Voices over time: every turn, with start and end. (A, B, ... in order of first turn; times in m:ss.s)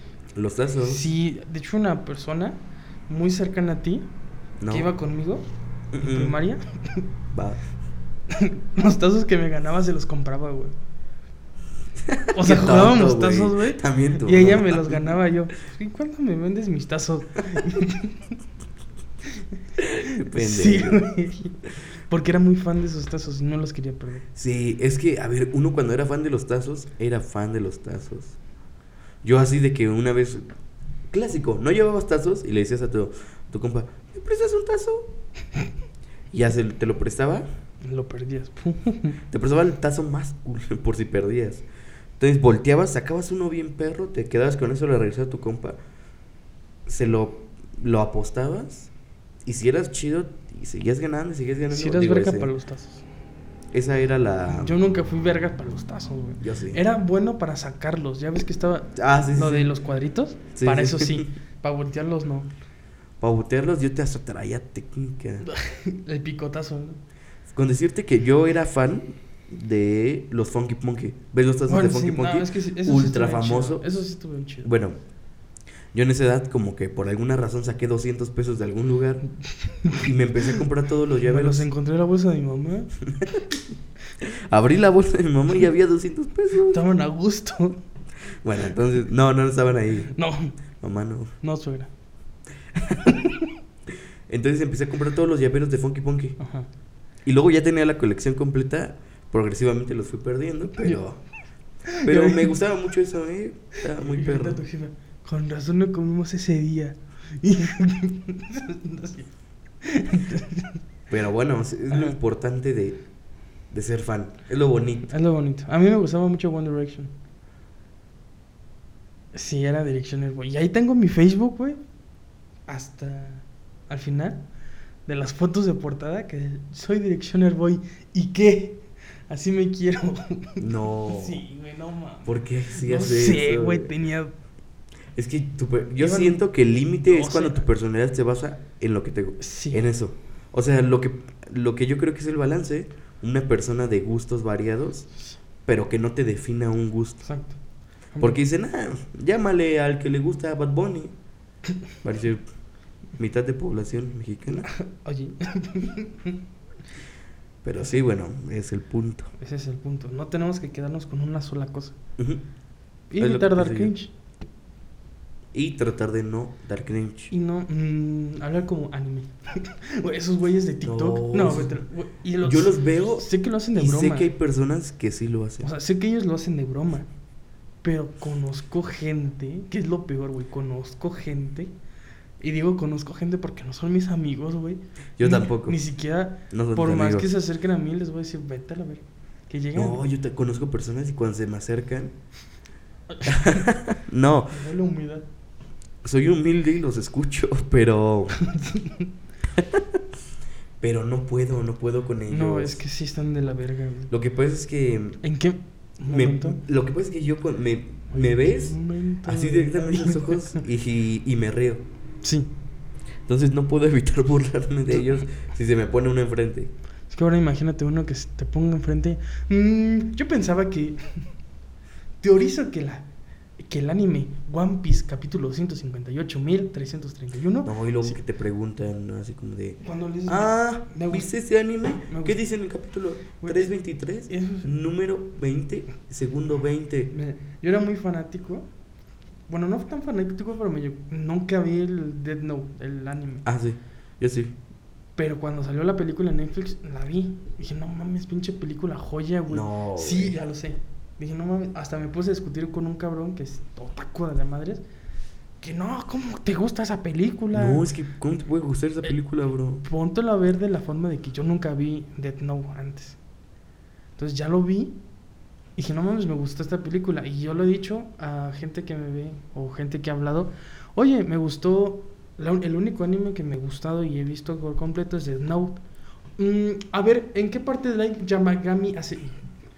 0:00.3-0:01.0 A
0:00.8-0:04.1 B
0:04.6-0:04.9 A
0:04.7-0:07.1 B
0:05.9-0:06.4 A
0:07.3-0:07.6 A
0:08.3-0:10.8 B
0:12.0-0:15.2 A
0:12.3-0:18.3 B
0:19.8-0:21.0 A
0:20.0-0:21.6 B
0:22.1-0:24.3 B
0:24.3-0:28.4 A
0:29.2-0:30.5 A
0:31.1-0:35.1 A
0:36.3-0:37.4 A
0:37.8-0:39.2 B
0:39.3-0:41.6 A
0:42.2-0:45.8 A
0:46.8-0:48.9 A
0:49.4-0:52.5 A
0:51.7-0:53.0 B
0:53.7-0:54.8 A
0:54.5-1:02.5 B
0:56.4-0:56.8 A
0:58.9-0:59.6 A
1:00.6-1:01.3 A
1:03.2-1:05.4 A
1:05.4-1:07.0 B
1:07.5-1:13.8 A
1:11.7-1:14.7 B
1:14.6-1:15.0 A
1:15.9-1:19.2 A
1:19.5-1:20.6 B
1:20.0-1:21.7 A
1:21.2-1:22.9 B
1:23.0-1:23.4 A
1:24.2-1:26.8 A
1:26.7-1:27.8 B
1:28.4-1:30.1 A
1:30.1-1:30.5 B
1:30.8-1:31.3 A
1:31.4-1:31.9 B
1:32.8-1:33.2 A
1:32.9-1:33.5 B
1:34.3-1:36.4 A
1:36.4-1:36.7 B
1:37.2-1:41.2 A
1:41.9-1:42.6 B
1:42.0-1:44.6 A
1:43.9-1:49.3 B
1:49.8-1:50.8 B
1:51.1-1:53.0 A
1:51.9-1:52.2 B
1:53.7-1:55.1 A
1:55.1-1:57.1 B
1:59.3-2:01.8 B
2:02.7-2:04.4 B
2:05.1-2:14.3 B
2:10.6-2:11.4 A
2:12.2-2:13.9 A
2:15.1-2:25.1 A
2:16.0-2:16.4 B
2:17.0-2:17.6 B
2:19.4-2:19.8 B
2:25.6-2:27.2 A
2:27.2-2:27.6 B
2:28.1-2:28.4 B
2:28.2-2:31.1 A
2:32.0-2:32.4 A
2:33.2-2:34.7 A
2:34.6-2:36.4 B
2:37.6-2:39.3 A
2:39.4-2:42.0 B
2:43.1-2:44.1 B
2:43.2-2:43.9 A
2:45.5-2:47.3 A
2:47.3-2:54.3 B
2:50.8-2:51.8 A
2:52.4-2:55.7 A
2:55.6-2:57.1 B
2:57.8-3:01.7 B
3:02.4-3:10.0 B
3:05.2-3:05.8 A
3:06.5-3:07.3 A
3:09.8-3:12.1 A
3:13.1-3:13.6 B
3:13.2-3:14.6 A
3:14.5-3:15.2 B
3:16.0-3:18.4 A
3:18.4-3:19.1 B
3:19.5-3:20.0 A
3:20.8-3:22.8 A
3:22.3-3:24.1 B
3:24.1-3:25.2 A
3:25.2-3:26.6 B
3:26.1-3:31.8 A
3:28.1-3:30.6 B
3:32.2-3:32.5 B
3:33.2-3:36.7 A
3:37.1-3:41.0 B
3:42.2-3:43.0 B
3:43.6-3:48.2 B
3:47.6-3:57.1 A
3:49.8-3:51.3 B
3:52.1-3:52.4 B
3:53.4-3:53.7 B
3:54.3-3:54.7 B
3:57.1-3:58.7 B
3:59.5-4:03.5 B
4:03.4-4:04.6 A
4:05.2-4:14.8 B
4:09.5-4:10.3 A
4:15.6-4:17.9 B
4:17.5-4:19.8 A
4:19.8-4:23.2 B
4:24.2-4:25.0 B
4:25.8-4:35.8 B
4:36.4-4:39.4 B